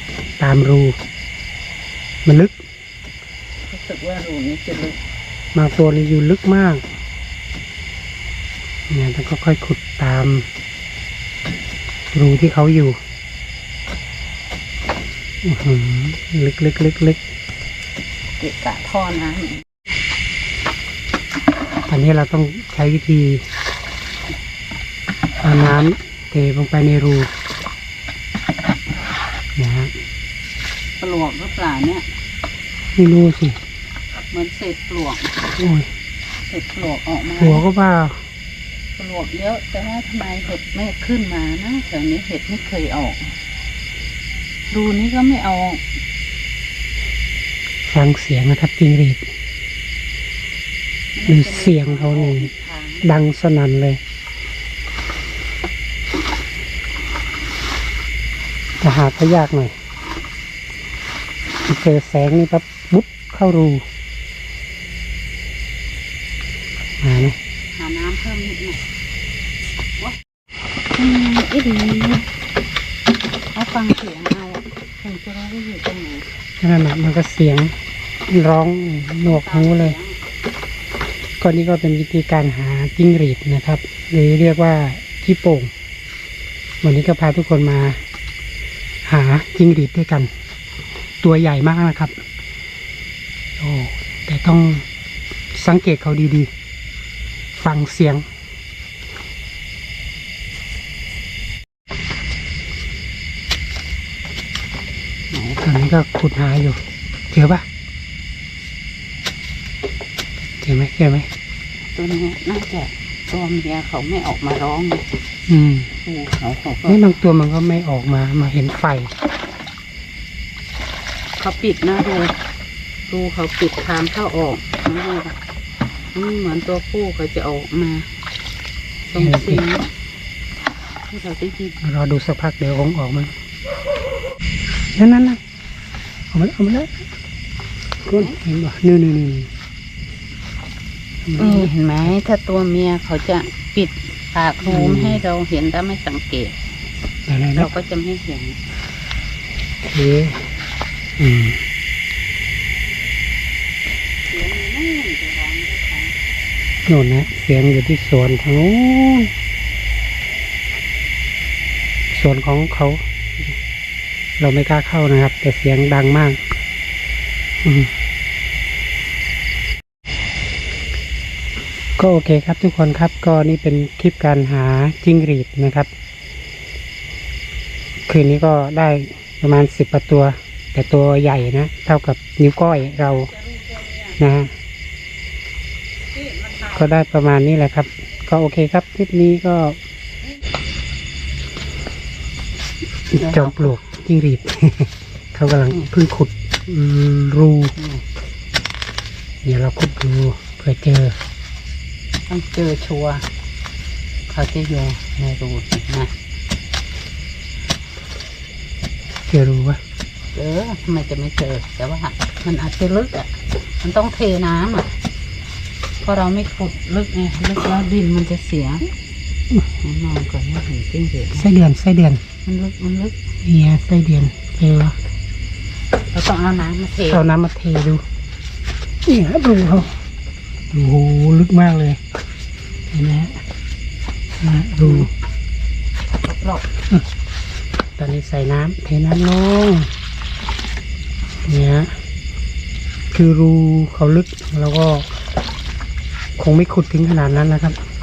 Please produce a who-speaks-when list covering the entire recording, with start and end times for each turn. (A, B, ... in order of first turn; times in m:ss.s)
0:00.4-0:01.0 A
0:02.2-0:02.6 A
0:03.7-0:05.0 B
0:05.5-0:06.8 A
0:08.9-0:10.5 A
0:12.1-0:13.0 A
0:15.4-0:17.2 A
0:18.4-0:19.6 B
0:21.9-0:23.4 A
0:25.4-0:27.3 A
0:29.6-0:29.9 A
0:31.0-0:32.1 B
0:33.0-0:33.6 A
0:34.3-0:35.4 B
0:35.6-0:35.9 A
0:36.4-0:37.6 B
0:37.4-0:38.2 A
0:39.0-0:43.4 B
0:44.7-0:45.8 B
0:47.9-0:49.3 A
0:51.2-0:53.1 B
0:51.3-0:52.5 A
0:53.0-0:54.0 A
0:58.8-0:59.8 A
1:01.7-1:03.8 A
1:07.0-1:07.4 A
1:07.7-1:08.8 B
1:10.9-1:12.3 B
1:13.5-1:16.3 B
1:16.6-1:17.7 A
1:18.3-1:20.0 A
1:19.2-1:20.2 B
1:21.4-1:25.7 A
1:26.8-1:28.0 A
1:29.0-1:30.3 A
1:31.2-1:32.1 A
1:33.6-1:34.8 A
1:35.5-1:36.5 A
1:37.6-1:38.2 A
1:45.3-1:45.7 B
1:45.6-1:46.8 A
1:47.3-1:47.6 A
1:50.6-1:51.3 A
1:52.0-1:55.1 B
1:55.5-1:55.9 A
1:56.0-1:57.0 B
1:56.8-1:59.1 A
2:01.4-2:02.3 B
2:03.1-2:05.4 B
2:06.1-2:08.1 B
2:09.1-2:09.9 B
2:09.2-2:09.6 A
2:11.1-2:11.8 B
2:11.8-2:13.3 A
2:15.0-2:15.4 A
2:16.3-2:17.0 A
2:18.1-2:19.5 A
2:21.2-2:22.1 A
2:21.4-2:26.6 B
2:24.6-2:25.2 A
2:27.3-2:27.7 A
2:27.6-2:28.6 B
2:29.9-2:30.5 A
2:31.2-2:31.6 A
2:34.3-2:36.1 B
2:36.9-2:39.3 A
2:42.1-2:43.6 A
2:44.4-2:46.4 A
2:47.6-2:47.9 A
2:52.0-2:55.9 A
2:58.1-3:03.3 A
3:02.9-3:04.2 B
3:04.2-3:04.5 A
3:06.1-3:06.8 B
3:06.7-3:09.8 A
3:13.1-3:17.8 A
3:13.2-3:13.8 B
3:17.8-3:18.0 B
3:19.4-3:21.2 A
3:22.3-3:23.2 B
3:24.3-3:26.1 B
3:29.3-3:29.8 A
3:30.3-3:34.9 B
3:36.0-3:38.9 B
3:39.8-3:41.5 B
3:41.4-3:42.2 A
3:42.4-3:43.2 B
3:43.4-3:45.0 A
3:46.1-3:47.2 B
3:47.1-3:48.0 A
3:49.1-3:49.9 A
3:50.7-3:52.0 A
3:52.9-3:53.4 A
3:54.4-3:55.1 A
3:54.8-3:55.1 B
3:56.2-3:56.7 B
3:58.0-3:59.9 A
4:01.5-4:01.9 A
4:03.1-4:05.1 A
4:06.4-4:07.8 A